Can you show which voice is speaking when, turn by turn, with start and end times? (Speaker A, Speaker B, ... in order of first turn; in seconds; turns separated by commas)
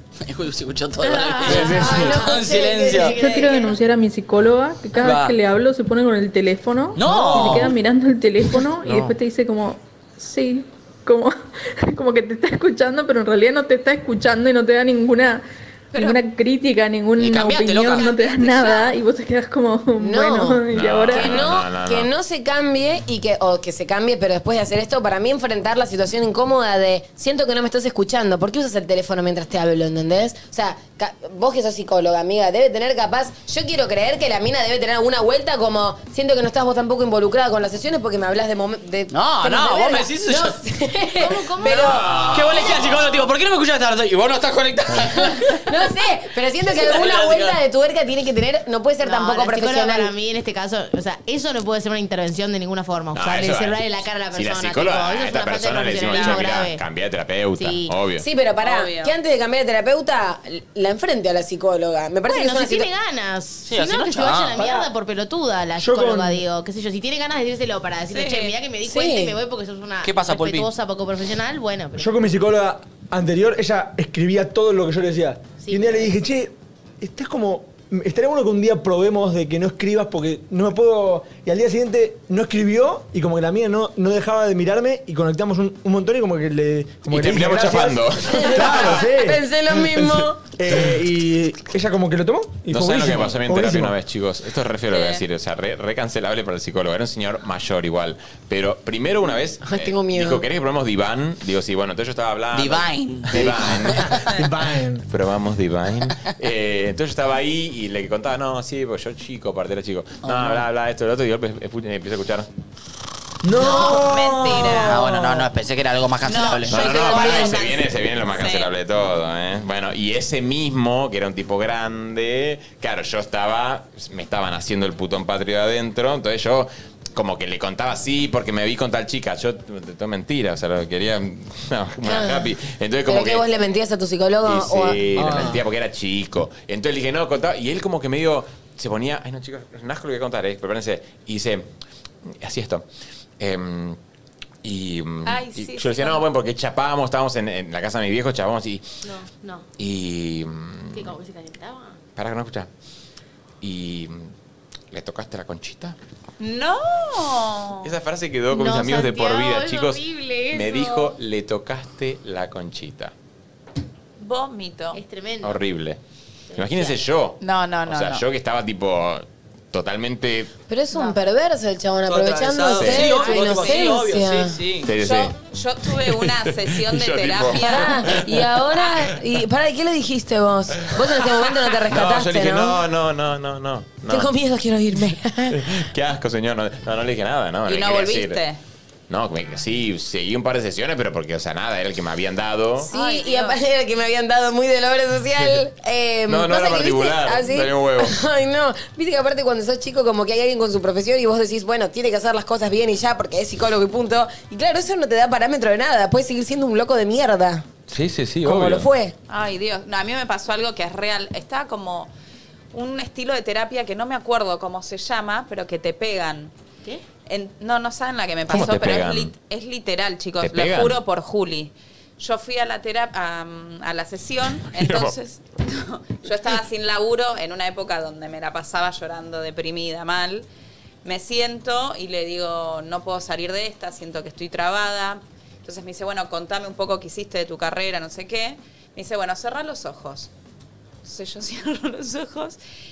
Speaker A: 0.2-3.1, Speaker B: 1.0-3.8, Speaker C: 1.4-2.1, Speaker D: 3.1-3.6, Speaker E: 3.1-21.4, Speaker A: 5.0-5.3, Speaker A: 7.0-7.7, Speaker D: 15.9-16.2, Speaker A: 17.2-18.1, Speaker D: 17.8-18.9, Speaker F: 20.0-42.1, Speaker C: 20.7-22.1, Speaker A: 39.1-40.6, Speaker B: 41.2-42.1, Speaker A: 41.6-45.6, Speaker C: 41.9-42.8, Speaker F: 45.3-50.1, Speaker A: 46.8-47.6, Speaker B: 49.0-56.8, Speaker C: 53.1-58.2, Speaker B: 57.6-57.9, Speaker F: 58.2-62.9, Speaker D: 58.6-59.1, Speaker B: 62.3-72.2, Speaker A: 63.6-64.6, Speaker G: 64.6-64.8, Speaker G: 65.8-66.4, Speaker D: 68.1-68.5, Speaker F: 68.8-69.3, Speaker A: 70.0-70.7, Speaker G: 72.0-93.9, Speaker B: 75.6-76.2, Speaker C: 87.1-89.0, Speaker F: 88.2-90.4, Speaker C: 92.7-104.3, Speaker D: 94.9-95.2, Speaker F: 99.6-100.4, Speaker A: 102.5-104.2, Speaker G: 104.3-105.0, Speaker C: 105.1-112.5, Speaker A: 110.2-110.6, Speaker G: 113.4-115.4, Speaker D: 113.6-115.0, Speaker A: 114.6-117.5, Speaker D: 116.2-118.7, Speaker C: 116.7-133.4, Speaker B: 117.1-117.5, Speaker F: 132.0-132.5, Speaker F: 133.1-135.6, Speaker C: 134.4-141.7, Speaker C: 142.4-142.8, Speaker C: 143.4-144.0, Speaker C: 144.6-148.8, Speaker D: 145.2-146.3, Speaker B: 149.0-149.6, Speaker C: 149.8-151.1, Speaker B: 150.9-152.0, Speaker C: 152.2-152.7, Speaker C: 153.6-154.3, Speaker C: 154.9-155.9, Speaker D: 156.4-157.9, Speaker C: 157.8-163.1, Speaker B: 158.5-160.9, Speaker D: 164.2-165.0, Speaker B: 164.9-165.6, Speaker C: 165.4-166.0, Speaker B: 166.5-167.0, Speaker C: 166.5-170.5, Speaker D: 167.4-168.2, Speaker F: 170.7-174.6, Speaker A: 172.1-174.9, Speaker C: 172.8-173.1, Speaker C: 174.8-175.3, Speaker D: 175.0-178.0, Speaker C: 175.9-178.6, Speaker F: 177.5-182.8, Speaker C: 181.8-184.3, Speaker F: 184.1-185.7, Speaker C: 185.5-188.4, Speaker D: 187.7-188.6, Speaker C: 189.1-192.9, Speaker F: 192.8-207.7, Speaker D: 192.9-193.6, Speaker C: 196.3-198.2, Speaker C: 207.9-208.9, Speaker F: 208.4-209.1, Speaker D: 209.3-212.1, Speaker D: 212.7-216.5, Speaker D: 217.3-230.5, Speaker C: 218.5-219.3, Speaker C: 220.4-221.0, Speaker C: 224.7-225.1, Speaker D: 231.0-240.3, Speaker D: 241.0-242.6